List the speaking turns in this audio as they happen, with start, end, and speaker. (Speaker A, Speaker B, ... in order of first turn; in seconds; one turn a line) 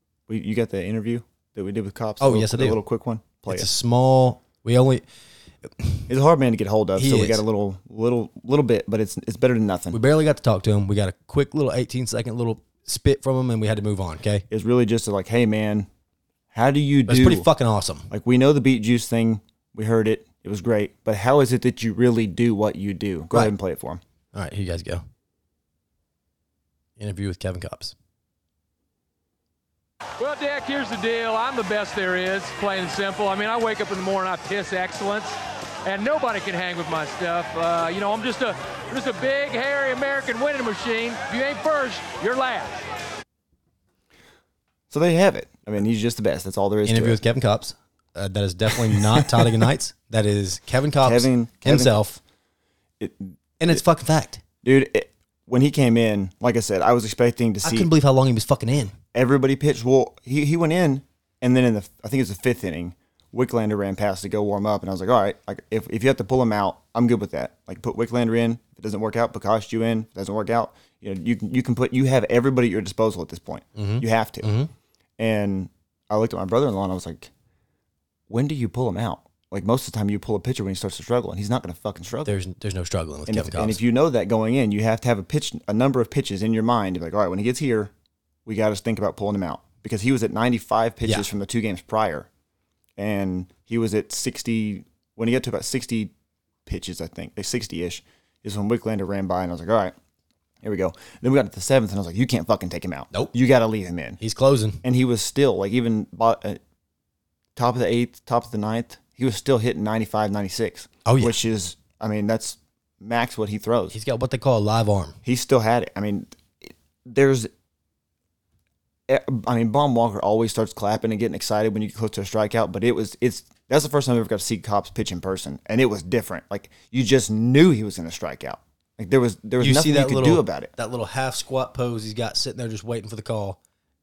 Speaker A: 0.3-3.7
Speaker B: 2.2-2.8
Speaker B: 3.5-5.0
Speaker B: 5.6-6.1
Speaker A: 6.1-10.0
Speaker B: 7.0-7.4
Speaker B: 9.9-14.4
Speaker A: 14.5-15.9
Speaker A: 16.5-17.4
Speaker B: 17.1-18.1
Speaker A: 18.1-24.0
Speaker B: 24.3-25.0
Speaker B: 27.0-27.9
Speaker C: 30.2-42.8
Speaker A: 44.9-47.2
Speaker B: 46.8-52.2
Speaker A: 48.9-49.5
Speaker A: 51.0-52.0
Speaker A: 53.0-53.8
Speaker B: 53.6-54.4
Speaker A: 54.6-57.9
Speaker B: 57.6-58.9
Speaker A: 59.1-74.5
Speaker B: 73.8-74.7
Speaker A: 75.2-77.3
Speaker A: 78.3-82.3
Speaker B: 82.2-83.8
Speaker A: 83.3-87.9
Speaker A: 88.5-92.3
Speaker A: 93.0-96.1
Speaker A: 96.7-99.9
Speaker A: 100.6-104.2
Speaker B: 104.2-104.8
Speaker A: 104.8-106.6
Speaker A: 107.5-113.9
Speaker B: 111.0-111.4
Speaker B: 113.9-115.2
Speaker A: 115.2-117.5
Speaker A: 119.1-130.7
Speaker B: 129.6-133.6